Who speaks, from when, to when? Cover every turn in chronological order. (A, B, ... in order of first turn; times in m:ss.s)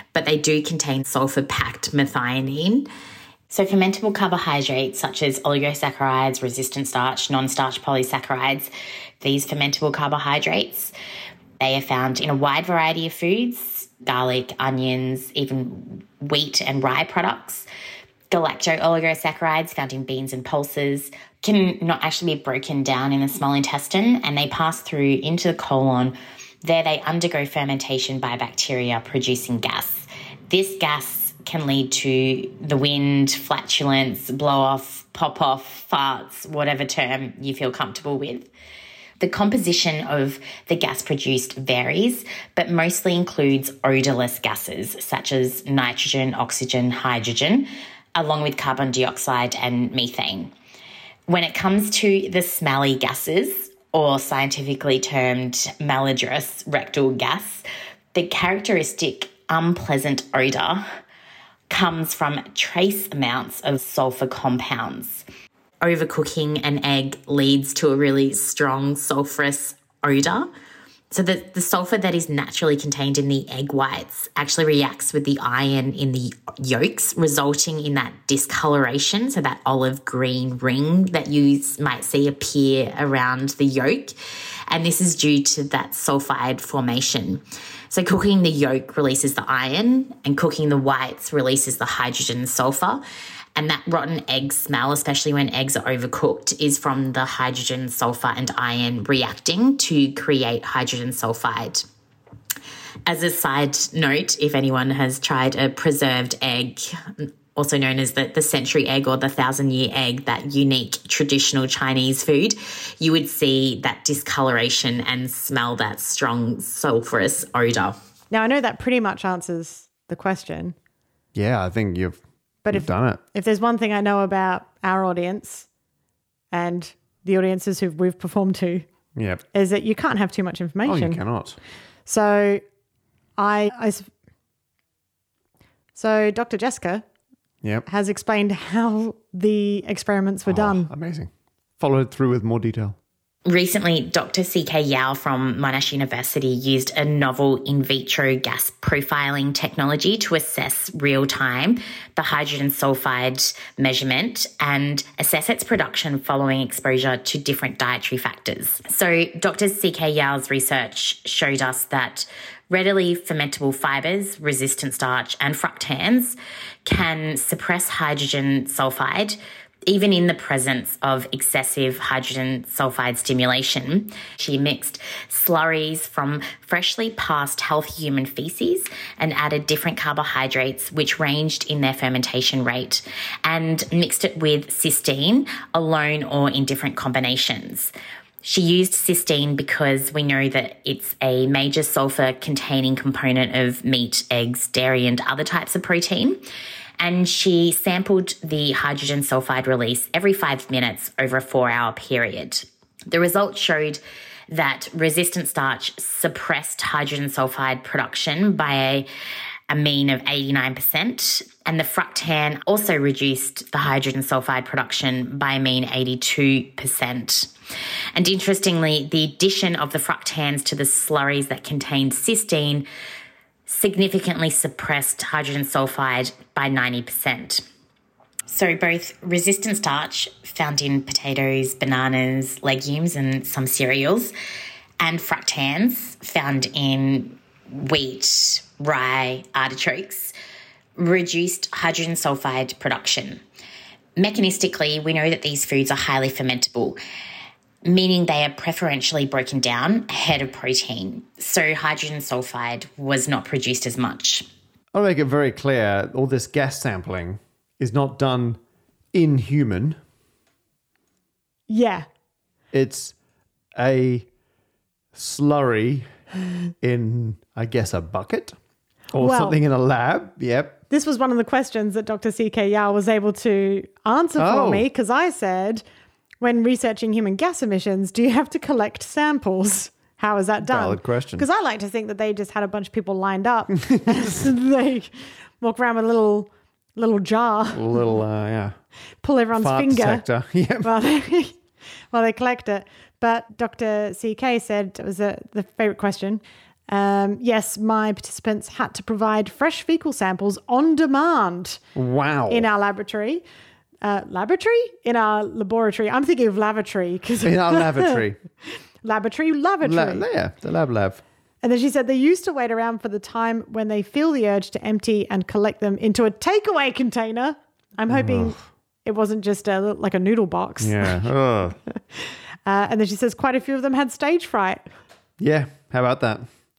0:00.1-0:02.9 A
0:03.5-0:10.9 A
0:11.6-0:17.7 A
0:18.3-0:38.5 A
0:39.2-0:50.5 A
0:51.3-1:00.8 A
1:01.7-1:05.2 A
1:05.8-1:10.5 A
1:11.1-1:24.1 A
1:24.7-1:33.0 A
1:33.5-1:41.8 A
1:43.0-1:58.0 A
1:58.3-2:00.7 B
2:01.3-2:02.2 C
2:02.6-2:05.7 B
2:02.7-2:03.2 C
2:06.5-2:08.9 B
2:09.2-2:09.4 C
2:09.5-2:11.2 B
2:10.8-2:11.6 C
2:12.0-2:12.6 B
2:13.4-2:14.1 B
2:15.9-2:17.0 B
2:17.8-2:20.9 B
2:20.4-2:23.0 C
2:23.4-3:16.4 A
3:17.0-3:29.1 A
3:29.7-3:37.5 A
3:38.1-3:42.8 A
3:43.7-3:47.6 A
3:48.5-3:54.3 A
3:55.0-4:00.3 A
4:01.0-4:03.4 A
4:04.2-4:07.0 A
4:07.8-4:14.4 A
4:14.9-4:18.6 C
4:19.1-4:20.0 C
4:21.7-4:22.0 B
4:22.7-4:23.1 C
4:23.8-4:24.3 C
4:25.1-4:26.1 C
4:26.8-4:28.6 C
4:29.1-4:30.8 C
4:29.2-4:29.6 B
4:30.9-4:35.8 B
4:34.4-4:34.9 C
4:36.4-4:48.0 B
4:40.6-4:41.4 C
4:43.7-4:44.5 C
4:47.7-4:48.8 C
4:49.2-4:50.2 B
4:49.5-4:50.9 C
4:50.8-4:51.6 B
4:52.1-5:01.8 B
5:01.9-5:02.7 C
5:02.5-5:03.4 B
5:04.0-5:10.2 B
5:07.4-5:08.4 C
5:09.8-5:11.2 C
5:11.6-5:21.2 B
5:18.1-5:18.6 C
5:20.8-5:21.8 C
5:21.9-5:24.9 B
5:25.4-5:26.5 C